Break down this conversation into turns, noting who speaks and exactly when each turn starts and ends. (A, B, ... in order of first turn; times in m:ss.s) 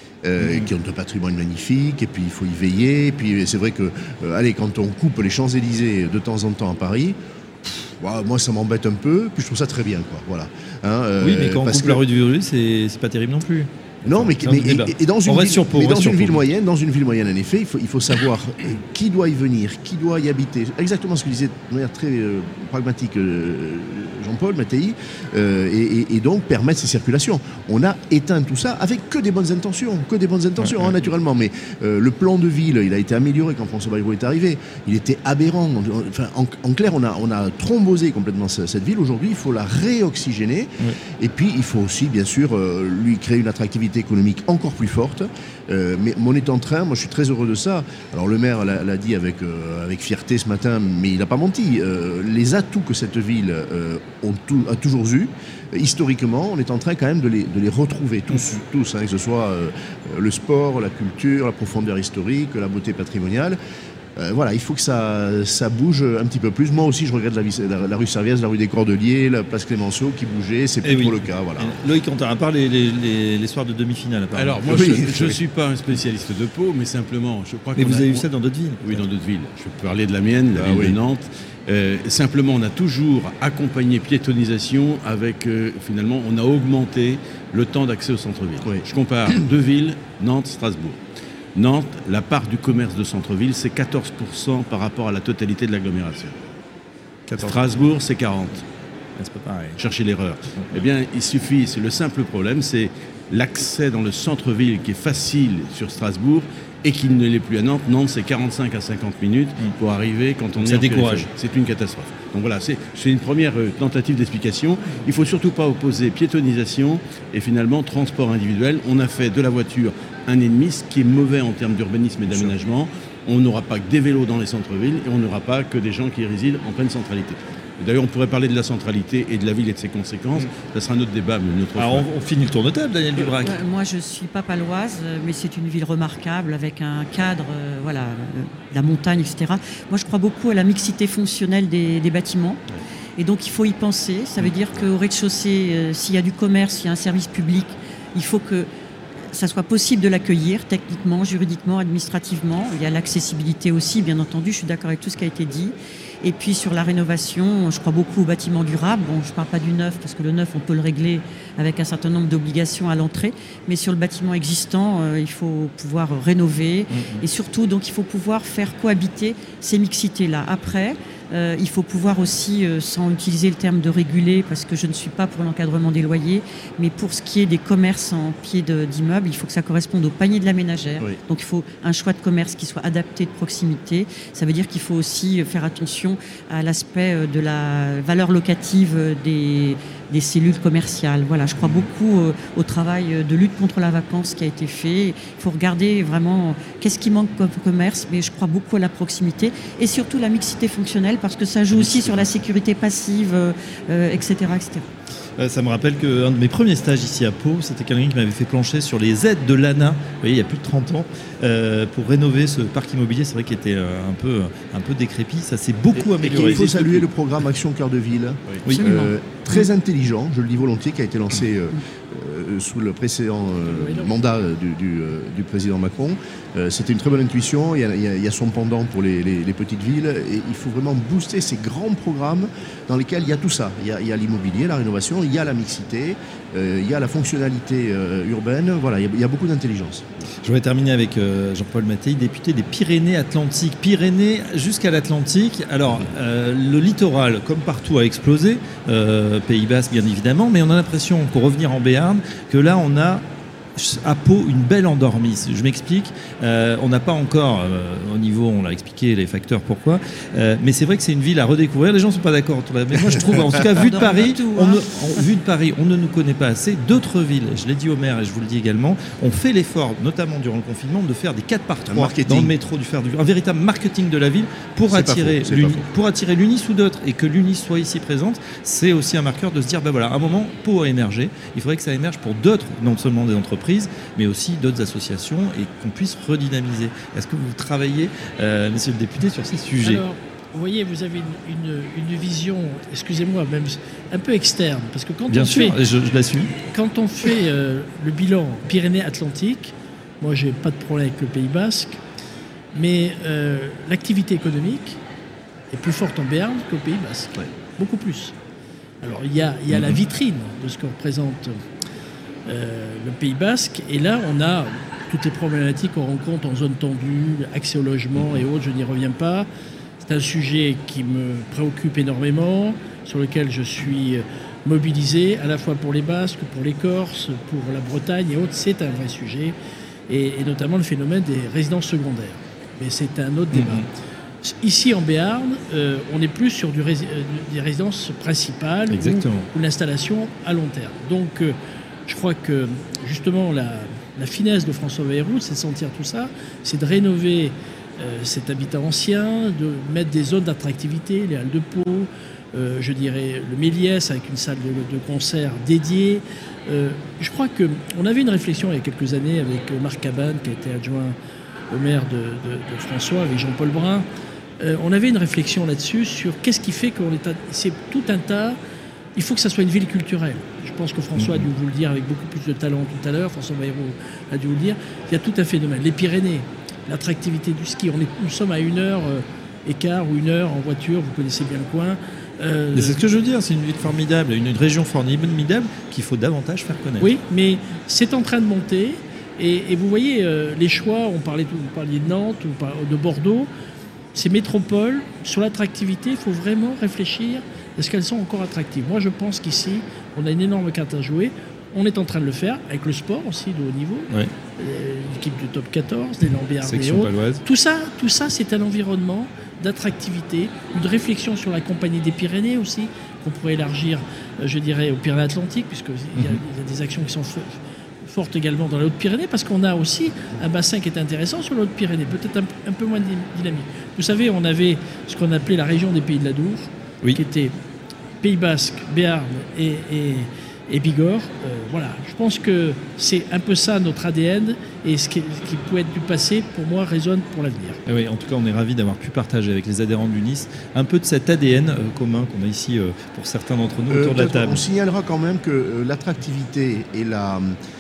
0:00.2-0:12.0 A
0:00.4-0:00.7 B
0:11.2-0:16.4 B
0:14.1-1:03.6 A
0:30.6-0:31.0 B
1:04.2-1:11.8 A
1:10.8-1:14.8 B
1:14.3-1:18.3 C
1:14.7-1:15.3 A
1:17.8-1:19.0 B
1:18.8-1:31.0 C
1:20.5-1:21.0 A
1:31.6-1:36.4 C
1:37.3-1:37.6 B
1:37.4-1:38.7 C
1:39.2-1:39.8 B
1:39.8-2:12.1 C
1:50.6-1:51.3 B
2:11.8-2:13.6 B
2:13.3-2:22.6 D
2:23.2-3:24.9 D
2:46.9-2:47.2 B
3:11.6-3:11.9 B
3:21.7-3:22.3 B
3:25.4-3:36.7 B
3:36.0-3:37.1 C
3:36.2-4:00.2 A
3:38.6-3:39.0 B
3:38.8-3:39.6 D
3:43.8-3:44.1 E
4:00.4-4:13.2 B
4:13.8-4:50.0 B
4:23.1-4:25.2 D
4:31.9-4:32.6 A
4:34.9-4:35.9 A
4:49.8-4:55.8 E
4:55.3-4:56.5 B
4:56.6-5:02.0 E
5:02.7-5:05.0 E
5:05.7-5:08.4 E
5:09.0-5:11.6 E
5:12.5-5:19.5 E
5:20.0-5:29.6 E
5:30.1-5:33.9 E
5:33.5-5:33.8 B
5:34.4-5:41.6 E
5:38.9-5:39.5 B
5:42.1-6:01.2 E
6:01.7-6:04.1 E
6:04.6-6:08.6 E
6:09.2-6:23.0 E
6:11.2-6:11.4 B
6:22.8-6:27.1 B
6:27.0-6:33.5 E
6:34.2-7:07.5 E
6:46.6-6:47.4 B
7:08.2-7:17.8 E
7:17.9-7:24.6 B
7:23.9-7:27.6 A